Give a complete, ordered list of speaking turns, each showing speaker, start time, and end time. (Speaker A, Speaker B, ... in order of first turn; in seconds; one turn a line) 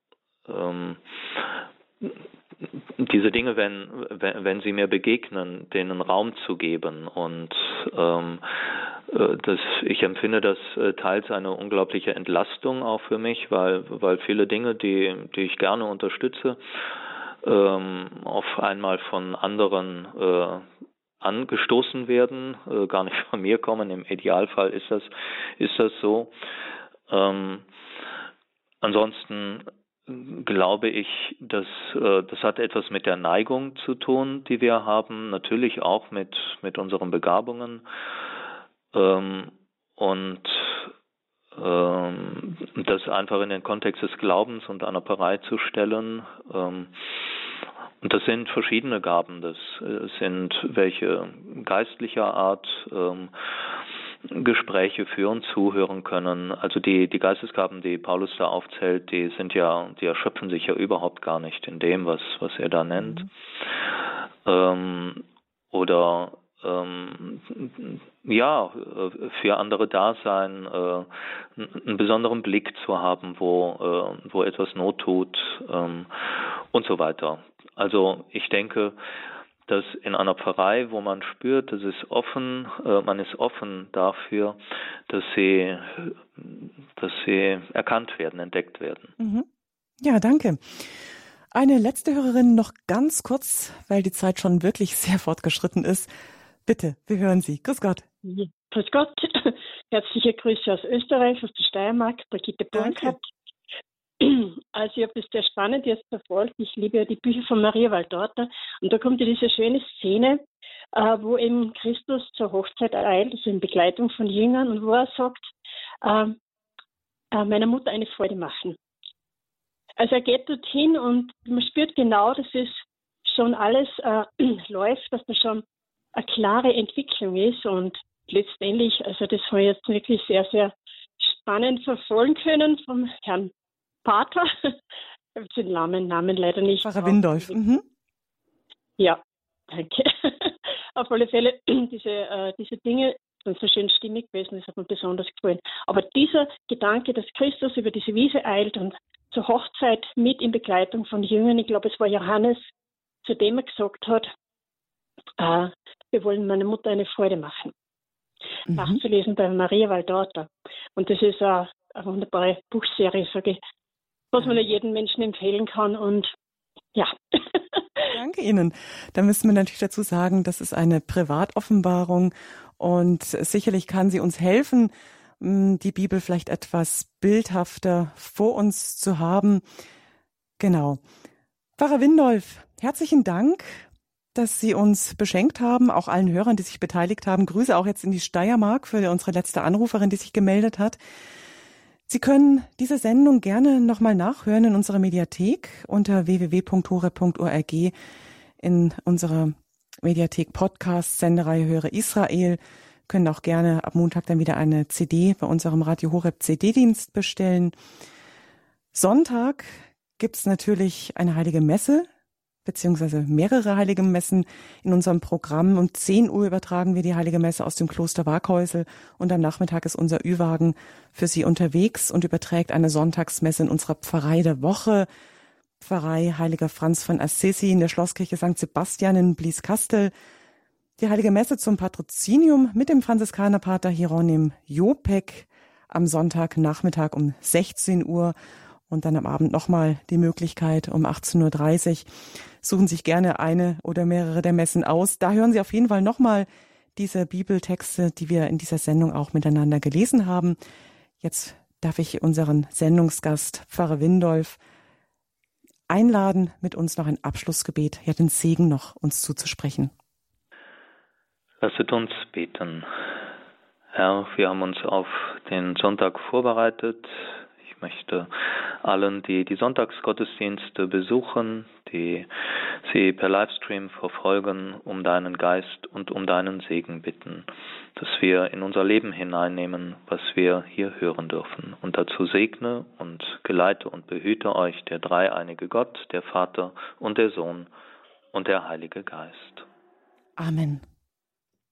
Speaker A: 0.5-20.6
Speaker A: 21.2-26.3
Speaker A: 27.1-27.7
Speaker A: 28.8-38.3
Speaker A: 38.9-40.9
Speaker A: 41.5-79.0
Speaker A: 79.7-84.6
Speaker A: 85.1-89.1
Speaker B: 89.2-89.5
Speaker B: 90.0-91.0
Speaker B: 91.5-96.1
Speaker B: 96.7-98.0
Speaker C: 98.2-103.3
Speaker B: 102.7-103.2
Speaker C: 104.2-115.5
Speaker C: 116.0-116.4
Speaker C: 117.3-118.8
Speaker C: 120.0-125.6
Speaker C: 126.1-133.5
Speaker C: 134.0-134.7
Speaker C: 135.3-137.5
Speaker B: 136.8-137.8
Speaker C: 139.0-152.7
Speaker C: 153.2-154.3
Speaker C: 155.4-157.7
Speaker B: 158.7-159.0
Speaker C: 158.7-163.6
Speaker C: 164.3-166.3
Speaker C: 166.9-168.0
Speaker B: 168.1-179.6
Speaker B: 180.6-181.0
Speaker B: 181.8-191.0
Speaker B: 192.1-197.9
Speaker B: 198.6-207.7
Speaker B: 208.9-212.1
Speaker B: 212.6-225.1
Speaker B: 225.8-230.1
Speaker B: 231.0-238.3
Speaker B: 238.9-242.1
Speaker B: 242.6-250.6
Speaker B: 251.2-254.6
Speaker B: 255.9-259.9
Speaker A: 261.6-262.9
Speaker A: 263.9-287.7
Speaker A: 288.3-289.6
Speaker B: 290.4-290.8